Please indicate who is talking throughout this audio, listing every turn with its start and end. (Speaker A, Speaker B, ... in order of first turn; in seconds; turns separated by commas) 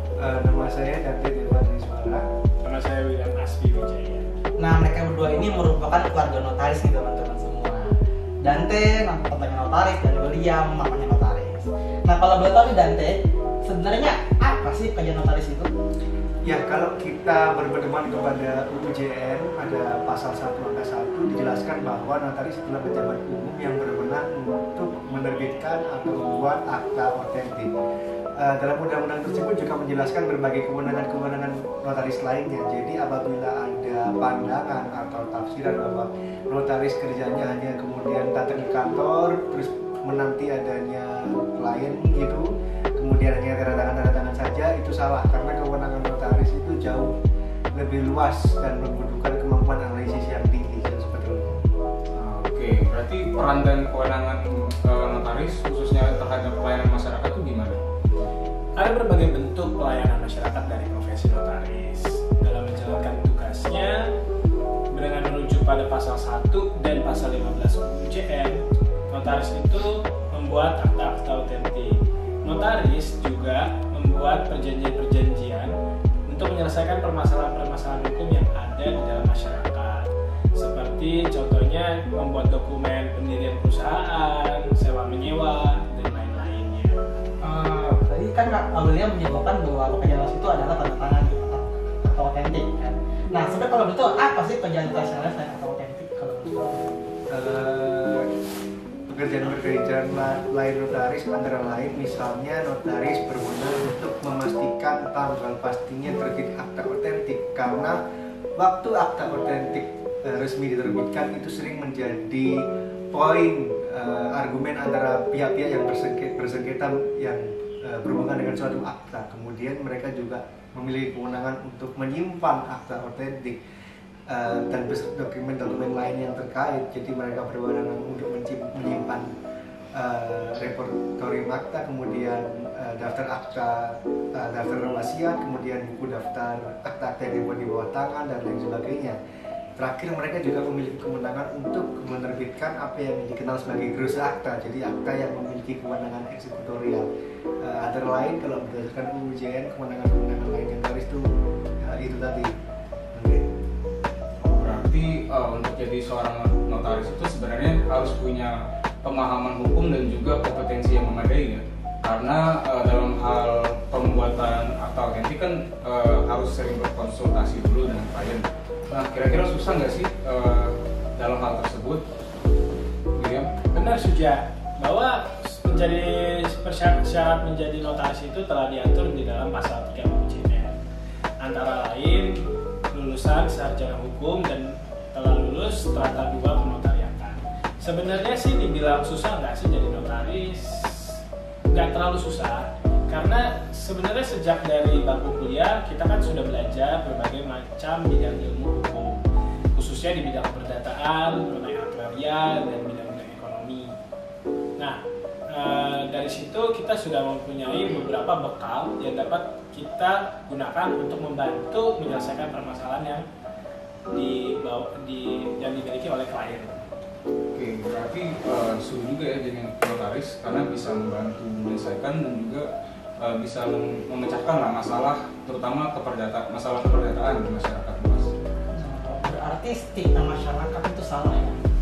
Speaker A: 0.2-2.3, Speaker B: 2.6-4.3, Speaker C: 4.6-7.9, Speaker C: 8.4-15.7, Speaker A: 16.4-27.7, Speaker A: 28.4-47.1, Speaker A: 47.7-51.6, Speaker D: 52.1-57.8, Speaker B: 58.8-64.0, Speaker B: 64.9-68.6, Speaker B: 69.1-75.7, Speaker B: 76.3-87.0, Speaker C: 87.4-97.0, Speaker A: 97.3-98.3, Speaker A: 99.1-108.0, Speaker A: 108.6-123.6, Speaker A: 124.3-129.3, Speaker A: 129.9-139.2, Speaker A: 139.8-147.1, Speaker A: 147.6-152.5, Speaker A: 153.1-153.4, Speaker D: 154.4-172.0, Speaker D: 173.2-173.5, Speaker B: 173.7-180.8, Speaker B: 181.4-182.3, Speaker B: 182.9-191.2, Speaker B: 191.7-203.9, Speaker B: 204.8-213.3, Speaker B: 214.1-216.8, Speaker D: 217.5-222.7, Speaker D: 223.2-228.3, Speaker C: 228.7-231.6